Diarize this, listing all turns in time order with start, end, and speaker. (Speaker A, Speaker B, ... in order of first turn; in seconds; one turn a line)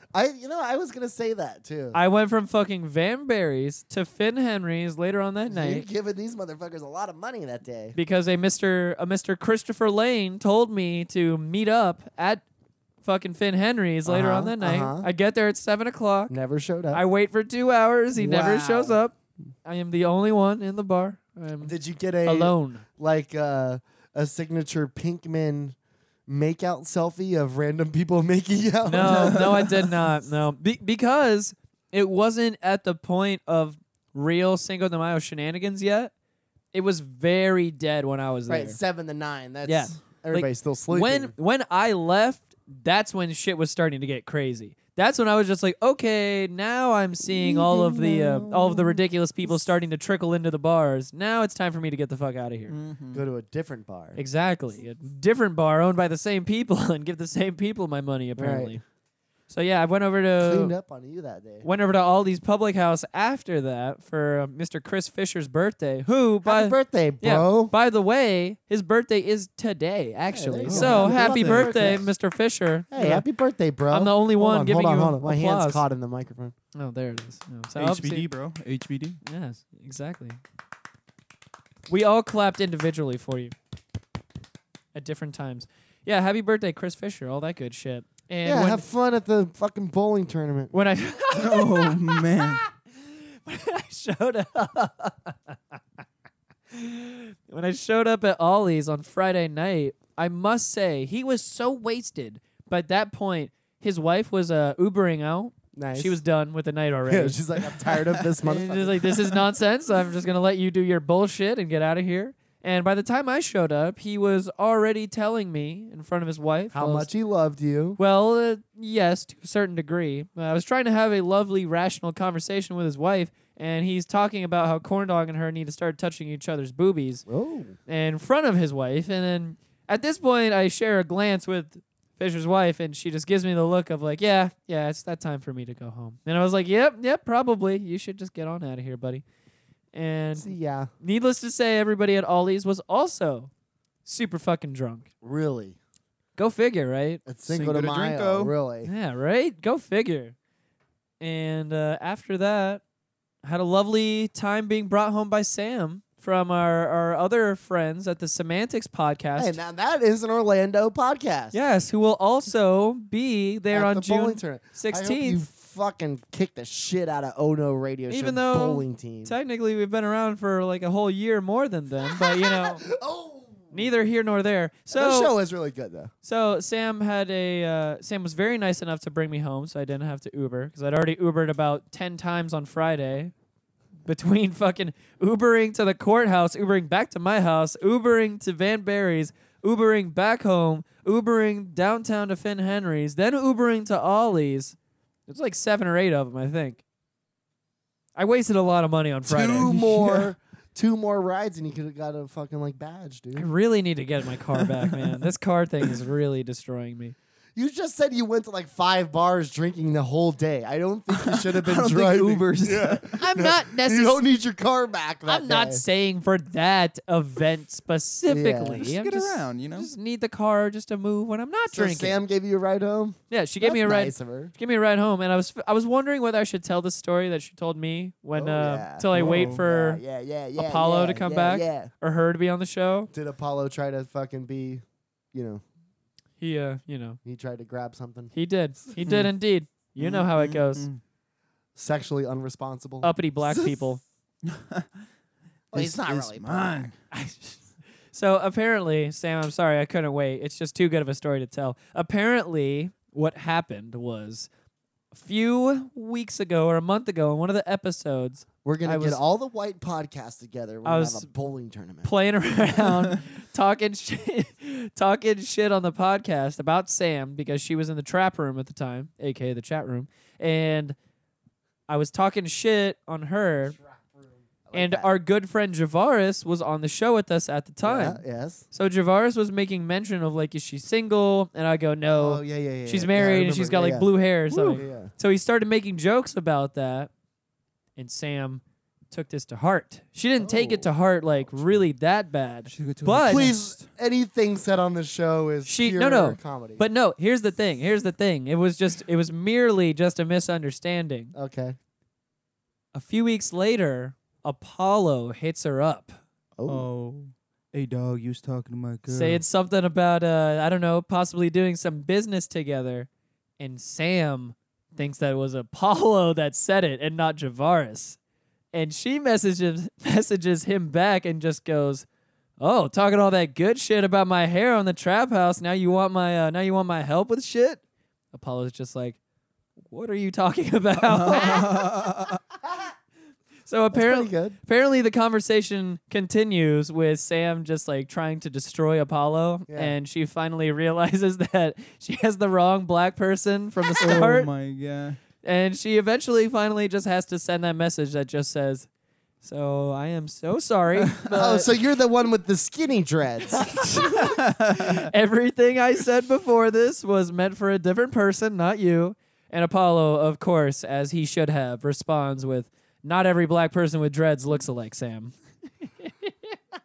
Speaker A: 0.1-2.0
Speaker B: 1.9-5.8
Speaker A: 5.5-8.0
Speaker B: 7.9-12.4
Speaker B: 13.0-16.3
Speaker A: 14.1-15.1
Speaker A: 16.3-17.0
Speaker B: 16.9-19.1
Speaker A: 18.2-19.0
Speaker B: 19.6-22.8
Speaker A: 21.6-25.8
Speaker A: 26.3-29.6
Speaker B: 28.9-36.1
Speaker C: 29.0-29.4
Speaker B: 36.7-38.8
Speaker A: 38.5-41.3
Speaker B: 39.6-52.8
Speaker A: 47.3-49.0
Speaker C: 52.7-53.2
Speaker A: 53.1-54.2
Speaker B: 54.1-58.8
Speaker A: 58.4-58.8
Speaker B: 59.5-60.8
Speaker A: 60.4-61.7
Speaker B: 61.6-73.2
Speaker A: 66.4-67.7
Speaker A: 70.3-72.1
Speaker C: 70.7-72.1
Speaker A: 72.9-76.5
Speaker B: 73.9-75.8
Speaker B: 76.7-78.3
Speaker C: 77.8-79.2
Speaker B: 79.2-80.4
Speaker B: 81.9-83.5
Speaker B: 84.9-88.8
Speaker A: 88.4-90.7
Speaker B: 90.7-95.8
Speaker C: 91.3-92.6
Speaker B: 96.7-107.4
Speaker A: 105.7-106.2
Speaker A: 107.0-109.0
Speaker B: 108.4-117.1
Speaker A: 116.7-118.0
Speaker B: 118.0-127.2
Speaker A: 127.3-127.8
Speaker B: 127.9-139.2
Speaker B: 139.9-143.5
Speaker A: 140.3-140.9
Speaker B: 144.0-145.1
Speaker A: 145.2-145.8
Speaker B: 146.4-147.2
Speaker A: 147.2-148.9
Speaker C: 147.5-148.5
Speaker B: 148.8-150.3
Speaker B: 151.2-152.8
Speaker B: 153.4-159.6
Speaker A: 159.4-161.6
Speaker B: 161.5-165.4
Speaker A: 163.7-169.3
Speaker B: 168.1-172.8
Speaker A: 172.1-173.9
Speaker B: 173.7-175.3
Speaker A: 174.9-176.1
Speaker B: 176.2-183.3
Speaker B: 184.0-194.7
Speaker B: 195.3-196.8
Speaker B: 198.2-199.7
Speaker A: 199.2-203.5
Speaker C: 199.6-200.3
Speaker B: 203.3-207.1
Speaker A: 207.5-215.8
Speaker C: 211.1-213.2
Speaker B: 213.2-214.2
Speaker B: 215.2-222.2
Speaker A: 218.2-218.9
Speaker C: 218.8-219.9
Speaker A: 221.7-224.5
Speaker B: 223.3-230.0
Speaker A: 228.3-231.9
Speaker C: 229.1-229.6
Speaker B: 230.6-233.1
Speaker A: 233.1-235.6
Speaker B: 236.4-237.2
Speaker A: 237.2-238.3
Speaker B: 238.3-240.9
Speaker C: 239.0-239.3
Speaker C: 240.0-241.0
Speaker A: 241.7-243.8
Speaker B: 243.0-244.0
Speaker C: 244.4-244.9
Speaker A: 245.7-246.9
Speaker C: 245.7-246.9
Speaker B: 247.1-247.6
Speaker B: 248.1-254.5
Speaker B: 255.1-259.2
Speaker A: 258.6-262.1
Speaker B: 260.8-261.3
Speaker B: 262.0-270.9
Speaker B: 271.9-273.8
Speaker A: 273.8-275.1
Speaker B: 274.7-287.1
Speaker A: 277.8-278.6
Speaker A: 282.1-285.1
Speaker B: 288.0-293.5
Speaker A: 290.4-290.9
Speaker C: 292.7-293.9
Speaker A: 293.2-296.8
Speaker B: 295.6-301.3
Speaker A: 301.3-301.8
Speaker B: 302.9-306.2
Speaker A: 306.6-306.9
Speaker C: 306.7-309.4
Speaker B: 309.1-318.2
Speaker B: 318.7-322.1
Speaker B: 322.6-327.8
Speaker B: 328.3-329.2
Speaker B: 329.9-331.9
Speaker C: 331.0-332.4
Speaker B: 333.6-344.5
Speaker A: 333.9-334.6
Speaker A: 339.7-339.9
Speaker C: 344.0-345.2
Speaker A: 344.1-344.3
Speaker B: 345.4-348.9
Speaker B: 349.4-351.7
Speaker C: 351.0-351.3
Speaker A: 351.3-353.8
Speaker B: 353.6-365.3
Speaker C: 354.2-355.1
Speaker B: 366.0-366.5